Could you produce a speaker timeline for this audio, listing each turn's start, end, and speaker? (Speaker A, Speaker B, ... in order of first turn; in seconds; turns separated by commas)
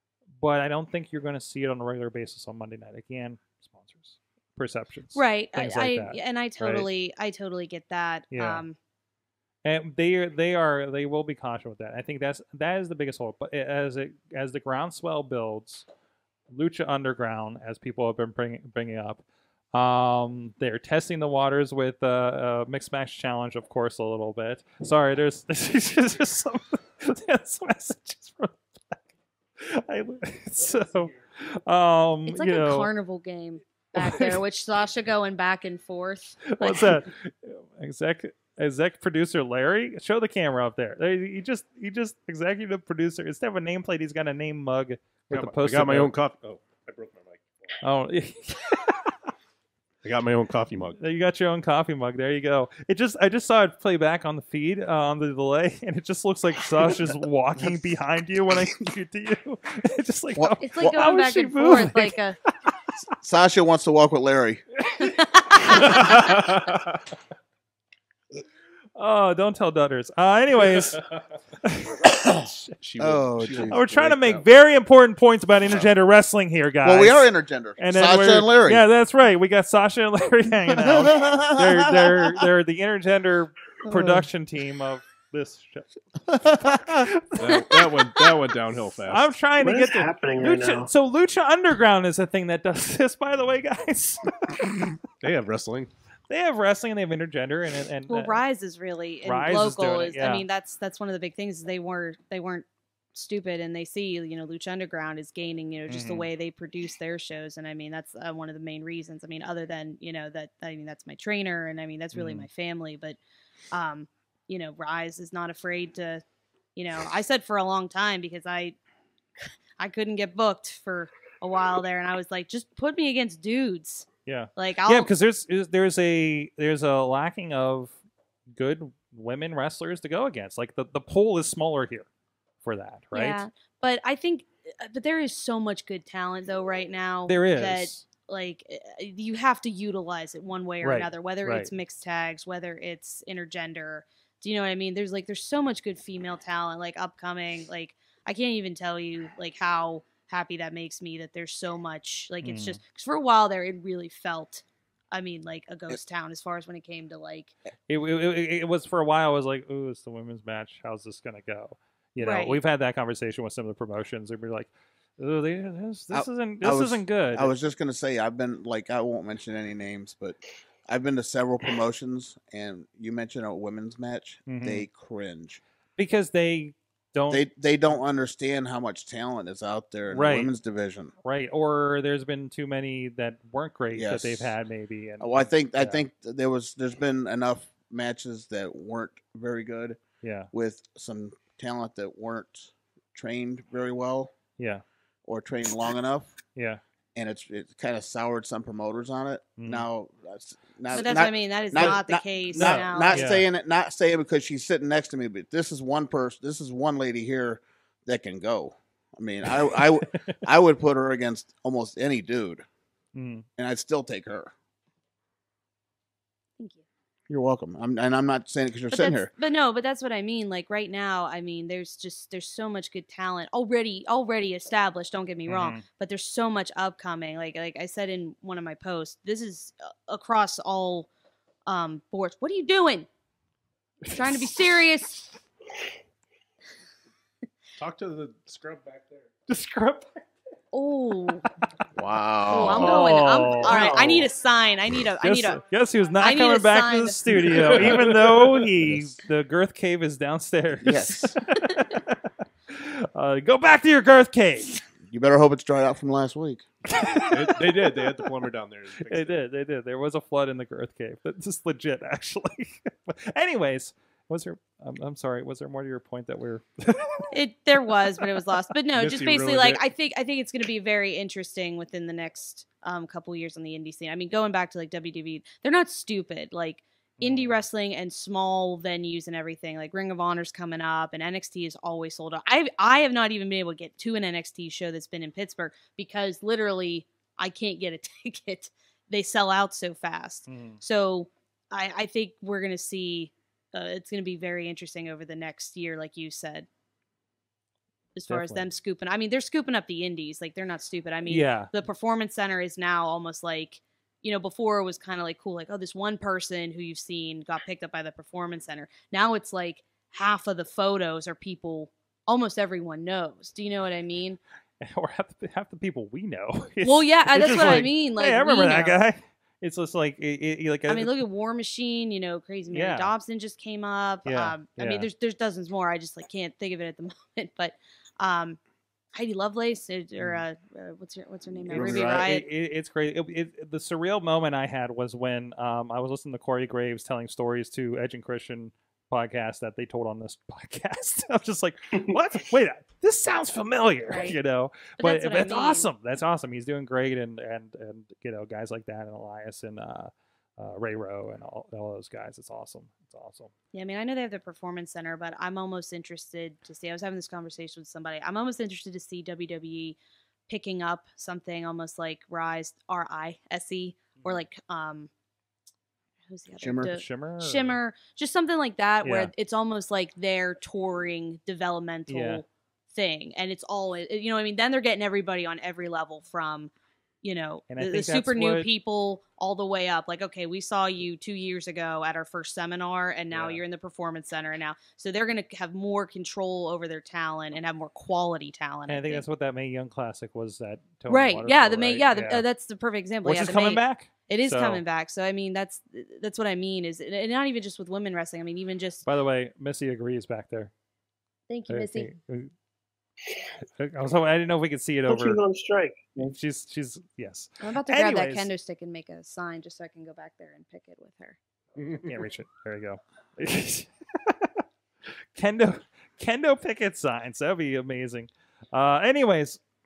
Speaker A: 0.4-6.9, Speaker B: 5.1-8.8, Speaker A: 8.3-8.6, Speaker A: 9.6-15.8, Speaker A: 16.5-29.0, Speaker A: 29.6-32.9, Speaker B: 32.3-37.0, Speaker A: 34.0-34.4, Speaker A: 36.5-46.1, Speaker C: 45.3-47.8, Speaker A: 47.8-49.1, Speaker C: 50.0-51.0, Speaker A: 51.0-62.9, Speaker B: 60.6-62.4, Speaker D: 63.2-64.6, Speaker B: 65.0-65.8, Speaker A: 65.8-66.1, Speaker C: 66.0-67.0, Speaker A: 69.0-71.0, Speaker A: 71.6-72.7, Speaker C: 72.8-74.5, Speaker D: 73.0-73.8, Speaker A: 73.7-85.9, Speaker D: 76.8-78.8, Speaker D: 80.7-82.4, Speaker D: 86.3-87.1, Speaker A: 86.9-88.0, Speaker C: 87.4-89.3, Speaker A: 89.1-94.9, Speaker E: 89.6-90.9, Speaker C: 95.2-95.9, Speaker A: 96.3-98.4, Speaker B: 98.1-113.2, Speaker A: 99.2-100.4, Speaker A: 105.9-106.3, Speaker A: 112.1-112.5, Speaker B: 113.7-116.2, Speaker B: 116.8-118.8, Speaker B: 119.8-125.1, Speaker A: 124.2-128.0, Speaker A: 128.5-132.1, Speaker A: 132.6-133.4, Speaker B: 133.1-157.5, Speaker A: 137.3-138.0, Speaker A: 140.8-141.7, Speaker A: 152.4-152.8, Speaker A: 157.9-167.5, Speaker B: 162.2-162.6, Speaker D: 166.1-175.6, Speaker A: 174.5-174.9, Speaker A: 176.0-177.4, Speaker D: 177.3-181.1, Speaker A: 180.1-180.5, Speaker A: 181.2-186.0, Speaker D: 183.9-184.5, Speaker D: 185.2-190.0, Speaker A: 190.2-190.5, Speaker D: 190.5-194.3, Speaker A: 194.6-194.8, Speaker D: 195.3-196.3, Speaker A: 196.6-196.8, Speaker D: 197.1-212.6, Speaker A: 199.6-199.9, Speaker B: 200.9-203.3, Speaker A: 202.6-203.4, Speaker A: 213.1-213.4, Speaker D: 213.6-214.5, Speaker B: 216.6-216.8, Speaker D: 217.3-219.3, Speaker B: 218.9-231.1, Speaker A: 225.5-225.8, Speaker B: 231.7-233.1, Speaker A: 234.0-234.6, Speaker B: 234.1-235.4, Speaker C: 237.8-239.3, Speaker A: 239.5-240.1, Speaker B: 240.7-241.4, Speaker D: 241.9-243.0, Speaker B: 242.5-245.6, Speaker A: 242.6-243.9, Speaker E: 243.7-244.3, Speaker A: 245.2-254.7, Speaker B: 246.2-247.9, Speaker C: 247.4-248.7, Speaker D: 250.8-251.3, Speaker D: 255.1-256.7, Speaker A: 256.9-257.5, Speaker C: 257.3-259.4, Speaker A: 259.1-267.3, Speaker B: 267.3-296.7, Speaker C: 268.9-269.8, Speaker A: 277.2-277.6, Speaker A: 290.5-290.8, Speaker B: 298.1-314.4, Speaker A: 298.3-298.7, Speaker A: 301.2-301.7, Speaker A: 314.8-321.2, Speaker B: 316.8-319.0, Speaker B: 320.9-328.6, Speaker A: 322.7-323.1, Speaker A: 324.2-325.1, Speaker B: 329.1-332.4, Speaker C: 331.7-332.3, Speaker A: 331.7-353.5, Speaker B: 344.1-344.4, Speaker B: 345.0-345.9, Speaker B: 353.7-360.0, Speaker B: 360.5-365.1, Speaker B: 366.3-376.7, Speaker D: 366.6-367.0, Speaker A: 366.8-367.8, Speaker A: 369.0-369.3, Speaker A: 372.1-372.4, Speaker B: 377.2-389.2, Speaker A: 377.7-378.7, Speaker A: 383.3-383.6, Speaker A: 388.9-392.4, Speaker B: 391.1-399.0, Speaker A: 393.2-394.8, Speaker A: 399.0-400.7, Speaker B: 401.5-402.1, Speaker A: 401.7-402.5, Speaker A: 403.8-405.4, Speaker E: 405.1-406.3, Speaker A: 406.2-408.5, Speaker B: 407.6-411.4, Speaker C: 411.8-412.1, Speaker A: 412.0-414.5, Speaker A: 415.3-419.6